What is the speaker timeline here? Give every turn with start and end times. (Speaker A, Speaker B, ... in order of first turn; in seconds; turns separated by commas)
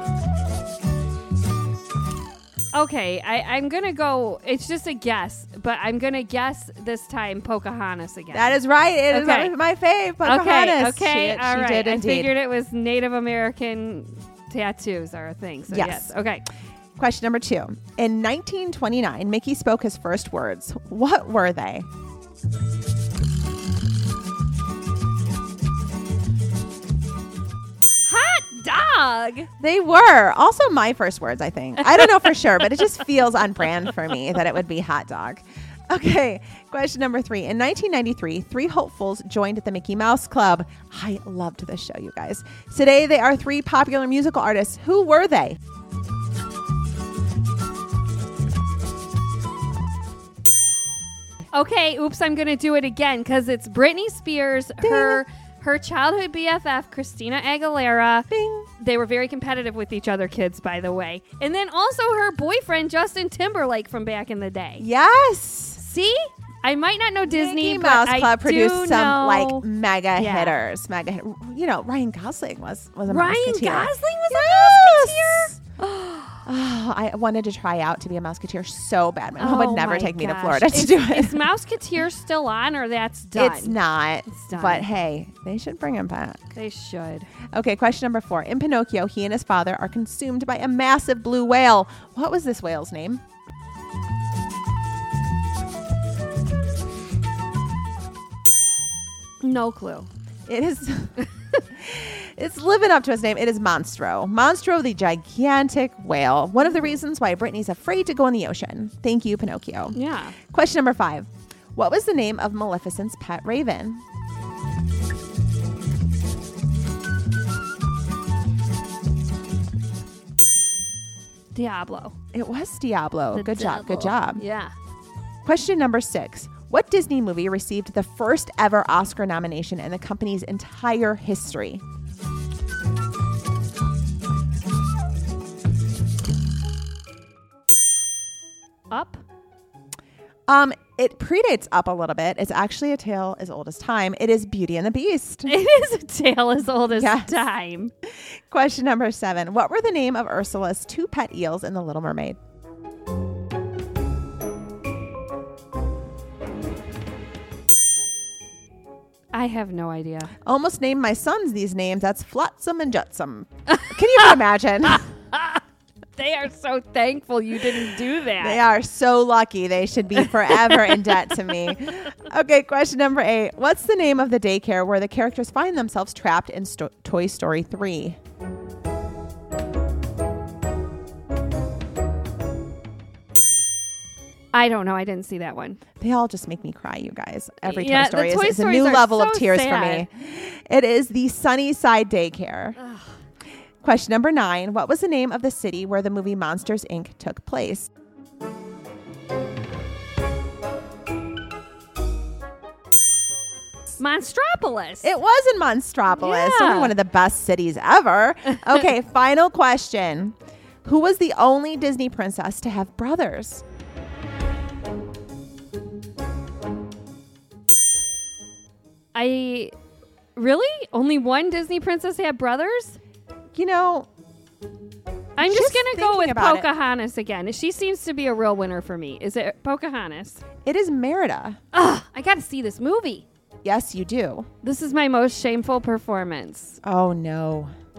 Speaker A: 2.7-8.6, Speaker B: 8.3-12.3, Speaker A: 9.1-9.5, Speaker A: 10.2-16.4, Speaker B: 15.7-16.1, Speaker B: 17.0-21.9, Speaker A: 28.1-29.5, Speaker B: 29.6-45.6, Speaker A: 51.5-64.8, Speaker B: 54.8-55.2, Speaker B: 58.3-58.7, Speaker B: 64.8-65.8, Speaker A: 65.8-69.7, Speaker B: 67.2-75.6, Speaker A: 70.2-70.6, Speaker A: 73.1-76.4, Speaker B: 76.5-81.5, Speaker A: 79.4-83.8, Speaker B: 83.3-86.4, Speaker A: 84.3-84.9, Speaker A: 86.5-87.3, Speaker B: 87.5-93.2, Speaker A: 99.4-100.1, Speaker B: 100.5-101.2, Speaker B: 101.8-110.0, Speaker A: 109.9-110.4, Speaker B: 110.5-114.0, Speaker A: 121.5-122.2, Speaker B: 122.3-124.4, Speaker A: 123.3-124.7, Speaker B: 125.5-131.8, Speaker A: 138.9-139.2, Speaker B: 140.5-145.5, Speaker A: 145.5-147.9, Speaker B: 146.9-147.4, Speaker B: 148.5-152.4, Speaker A: 159.3-160.3, Speaker B: 160.4-165.1, Speaker A: 165.3-165.6, Speaker A: 166.2-168.6, Speaker B: 168.4-178.2, Speaker A: 184.5-185.8, Speaker B: 186.0-192.8, Speaker A: 187.7-190.1, Speaker B: 193.8-197.9, Speaker A: 204.0-205.1, Speaker B: 205.0-213.6, Speaker A: 206.2-206.9, Speaker A: 219.1-219.7, Speaker A: 220.4-223.0, Speaker B: 223.5-224.1, Speaker A: 225.4-230.4, Speaker B: 225.4-226.7, Speaker B: 230.6-231.6, Speaker A: 231.7-233.3, Speaker B: 233.6-234.5, Speaker A: 234.6-236.8, Speaker B: 236.8-237.7